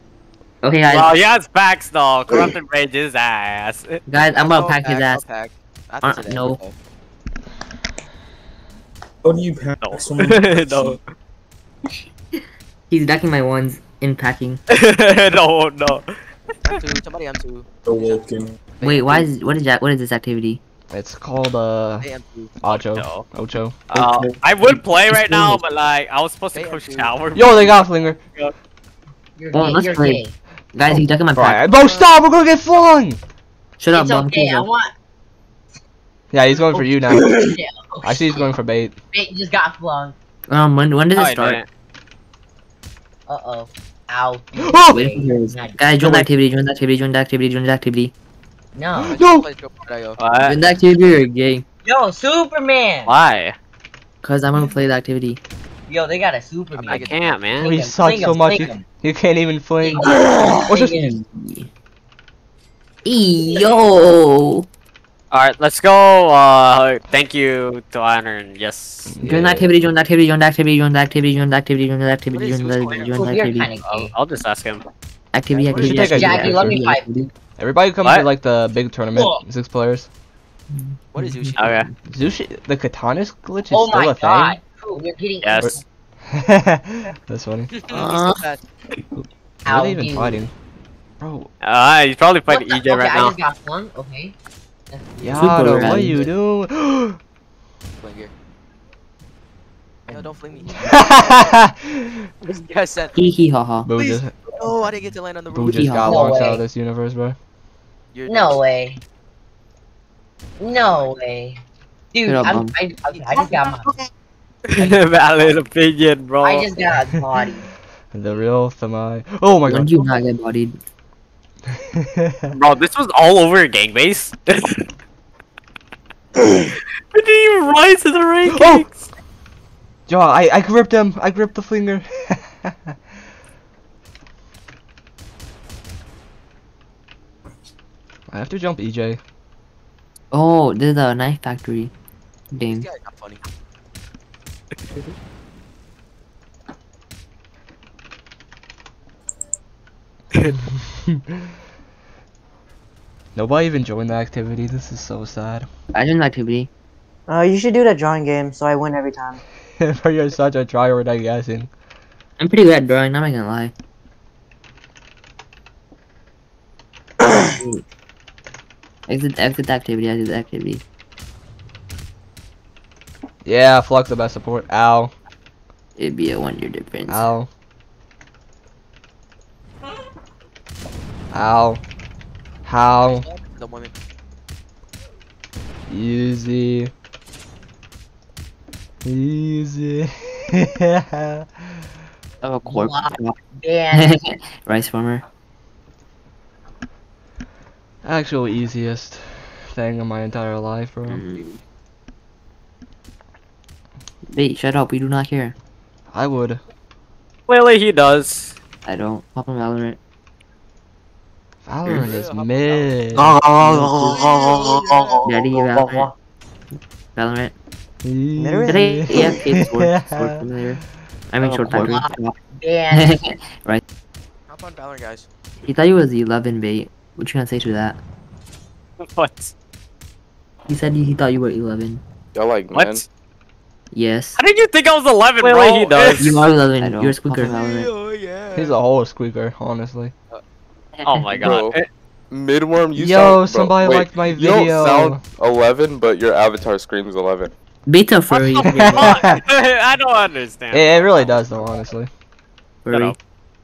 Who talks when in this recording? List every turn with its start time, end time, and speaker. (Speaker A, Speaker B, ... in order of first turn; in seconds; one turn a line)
Speaker A: 0.6-1.1
Speaker B: 0.9-4.0
Speaker A: 4.1-5.2
Speaker C: 4.4-6.7
Speaker A: 6.0-6.6
Speaker D: 9.2-11.0
Speaker B: 9.8-11.0
Speaker A: 12.9-14.6
Speaker B: 14.7-16.0
Speaker C: 16.6-17.6
Speaker D: 17.9-18.6
Speaker C: 18.8-19.3
Speaker A: 18.8-20.6
Speaker E: 20.9-22.1
Speaker C: 22.0-22.5
Speaker E: 22.6-23.8
Speaker B: 22.9-23.2
Speaker B: 23.9-27.7
Speaker D: 23.9-24.3
Speaker A: 25.1-25.6
Speaker C: 26.5-27.7
Speaker E: 27.3-28.2
Speaker F: 29.4-30.3
Speaker A: 29.5-30.2
Speaker A: 30.7-31.6
Speaker E: 31.3-33.2
Speaker A: 33.8-34.7
Speaker F: 33.9-34.9
Speaker E: 36.3-37.3
Speaker F: 37.1-38.5
Speaker E: 38.0-39.0
Speaker F: 39.1-40.1
Speaker A: 40.5-41.6
Speaker B: 41.1-41.7
Speaker F: 43.3-46.2
Speaker E: 44.6-45.0
Speaker A: 44.9-48.1
Speaker F: 48.7-49.2
Speaker E: 49.0-49.5
Speaker C: 49.1-50.6
Speaker B: 50.2-50.6
Speaker A: 50.4-51.6
Speaker F: 51.8-53.1
Speaker B: 53.0-53.5
Speaker A: 54.2-55.4
Speaker F: 55.9-58.9
Speaker C: 56.7-57.6
Speaker B: 57.1-58.2
Speaker E: 57.6-61.0
Speaker F: 59.8-61.2
Speaker A: 60.9-61.7
Speaker A: 63.0-64.7
Speaker B: 65.3-69.2
Speaker E: 69.1-69.7
Speaker A: 69.2-73.7
Speaker C: 72.3-73.5
Speaker F: 73.1-74.1
Speaker B: 73.8-74.8
Speaker A: 75.3-77.3
Speaker E: 75.7-76.7
Speaker F: 75.8-77.0
Speaker E: 77.6-80.1
Speaker F: 79.1-79.4
Speaker A: 80.7-81.9
Speaker C: 81.1-81.8
Speaker B: 81.6-81.8
Speaker E: 82.1-84.6
Speaker F: 83.7-85.8
Speaker B: 85.4-85.7
Speaker E: 85.6-87.7
Speaker C: 87.7-88.6
Speaker A: 87.9-88.4
Speaker E: 89.1-90.5
Speaker F: 89.6-90.4
Speaker E: 91.2-91.5
Speaker B: 91.6-93.4
Speaker F: 92.5-94.3
Speaker F: 94.9-95.7
Speaker E: 95.2-97.2
Speaker A: 95.3-96.3
Speaker C: 98.0-98.3
Speaker F: 100.1-101.1
Speaker C: 100.1-101.2
Speaker E: 100.8-102.2
Speaker C: 102.4-103.2
Speaker A: 103.2-103.9
Speaker E: 103.8-104.5
Speaker C: 104.0-106.1
Speaker E: 105.5-107.3
Speaker A: 105.6-106.4
Speaker F: 106.0-106.6
Speaker C: 108.1-108.6
Speaker F: 108.3-109.0
Speaker F: 110.6-111.6
Speaker F: 112.1-113.9
Speaker A: 112.3-112.7
Speaker C: 113.1-113.7
Speaker B: 114.7-116.8
Speaker C: 114.8-115.6
Speaker F: 116.4-117.7
Speaker E: 118.1-120.0
Speaker A: 119.7-120.8
Speaker E: 121.7-122.5
Speaker B: 122.5-124.8
Speaker B: 127.1-129.1
Speaker E: 128.5-128.8
Speaker E: 130.1-132.9
Speaker E: 138.3-139.2
Speaker A: 140.3-141.9
Speaker A: 142.5-142.9
Speaker C: 142.7-143.4
Speaker E: 153.3-155.7
Speaker A: 155.9-156.7
Speaker G: 157.3-159.4
Speaker E: 159.8-161.7
Speaker A: 162.4-163.7
Speaker A: 167.5-167.8
Speaker A: 169.1-170.8
Speaker E: 173.4-175.1
Speaker A: 175.9-177.3
Speaker E: 177.1-177.5
Speaker E: 181.3-181.8
Speaker E: 182.6-183.2
Speaker C: 183.1-183.9
Speaker E: 185.9-186.9
Speaker E: 189.0-191.7
Speaker A: 192.4-193.3
Speaker F: 192.6-194.2
Speaker A: 193.9-195.2
Speaker E: 198.0-201.2
Speaker A: 201.1-201.4
Speaker A: 204.3-205.5
Speaker E: 206.1-206.6
Speaker B: 207.5-208.6
Speaker A: 208.8-210.0
Speaker E: 211.6-213.4
Speaker C: 211.8-215.3
Speaker A: 213.6-213.9
Speaker E: 214.0-214.9
Speaker A: 215.2-216.1
Speaker G: 215.3-216.1
Speaker A: 217.1-217.5
Speaker E: 218.0-220.6
Speaker G: 218.3-219.2
Speaker A: 218.7-222.3
Speaker C: 221.4-221.9
Speaker F: 221.7-223.2
Speaker A: 222.9-223.8
Speaker C: 224.5-225.3
Speaker A: 225.6-228.0
Speaker B: 229.0-229.5
Speaker A: 230.7-232.0
Speaker H: 232.3-233.0
Speaker B: 232.7-233.0
Speaker A: 233.9-234.4
Speaker B: 234.4-237.6
Speaker A: 236.2-237.8
Speaker E: 238.5-240.1
Speaker A: 240.9-241.6
Speaker B: 241.1-241.8
Speaker H: 241.3-241.8
Speaker H: 242.3-247.5
Speaker E: 243.0-245.2
Speaker A: 247.9-249.2
Speaker B: 248.3-251.1
Speaker E: 248.7-249.4
Speaker E: 250.7-252.1
Speaker A: 252.8-253.2
Speaker B: 252.9-253.2